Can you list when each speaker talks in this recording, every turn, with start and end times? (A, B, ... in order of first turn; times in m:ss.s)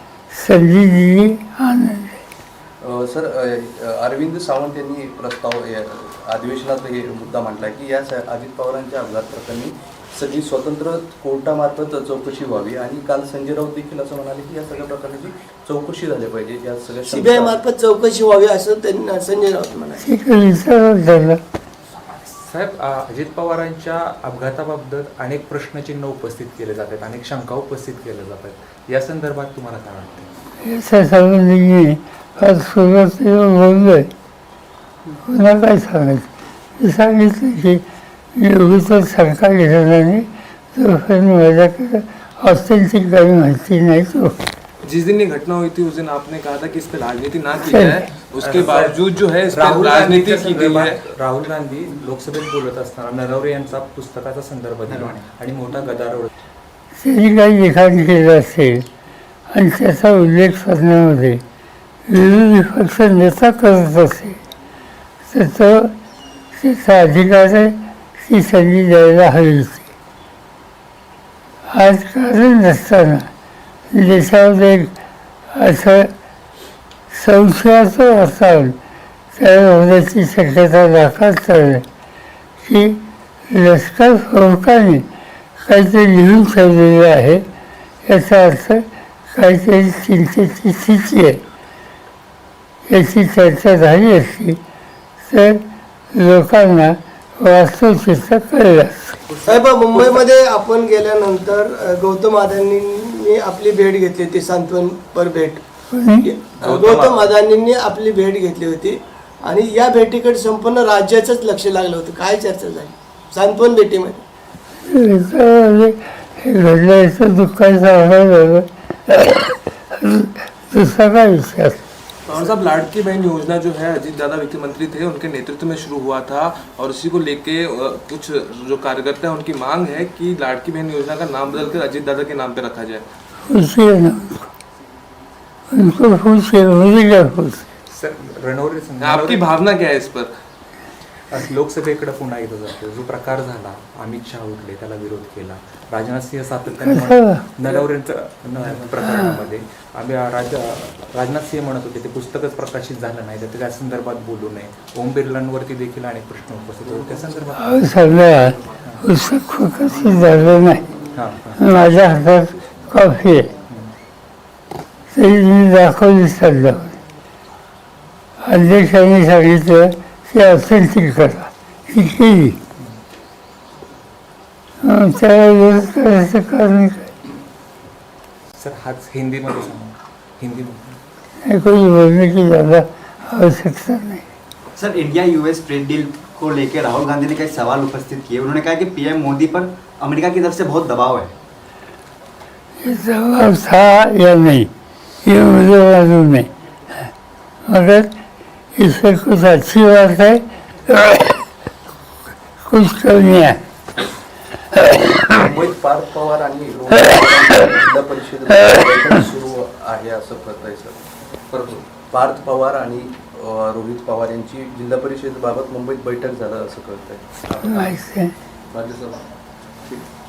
0:00.3-0:02.2 A
0:02.8-0:17.6 B
0:17.1-0:20.0 C
0:20.0-0:21.4 A
0:22.2-0:30.3 D
0:30.6-0:34.1 A
0:35.2-0:36.3 A
0:36.8-0:37.8 A
0:38.4-0:44.3 A
0:44.8-0:51.0 E
0:47.6-0:48.0 A
0:48.4-0:49.0 D
0:49.5-0:56.3 D
0:57.0-0:58.8 A
0:59.5-1:01.4 A
1:02.1-1:04.4 A
1:05.3-1:05.9 A
1:06.6-1:09.8 A
1:11.7-1:13.3 A
1:13.9-1:14.9 A
1:15.5-1:16.1 A
1:17.1-1:18.8 A
1:19.3-1:21.8 A
1:22.6-1:25.0 A
1:25.6-1:27.4 A
1:28.0-1:31.4 A
1:32.9-1:34.6 A
1:35.2-1:35.6 A
1:36.1-1:39.2 A
1:39.4-1:45.6 C
1:45.9-1:46.3 A
1:46.2-1:54.2 C
1:46.6-1:47.3 D
1:54.8-2:01.8 A
2:02.3-2:13.0 E
2:13.4-2:14.5 A
2:15.7-2:17.6 A
2:17.9-2:19.5 D
2:19.0-2:20.3 E
2:21.3-2:38.0 D
2:26.8-2:27.4 A
2:29.0-2:29.4 A
2:37.6-2:40.9 A
2:41.1-2:41.6 D
2:41.6-2:43.5 A
2:45.1-2:46.9 A
2:48.4-2:52.6 A
2:54.8-2:57.1 A
2:58.5-3:01.0 D
3:01.4-3:04.2 A
3:04.7-3:11.3 F
3:12.8-3:14.7 A
3:15.2-3:16.5 A
3:17.7-3:18.1 A
3:18.8-3:21.4 A
3:22.6-3:23.6 A
3:25.2-3:38.0 B
3:37.6-3:38.3 A
3:38.7-3:39.2 B
3:39.9-3:40.1 B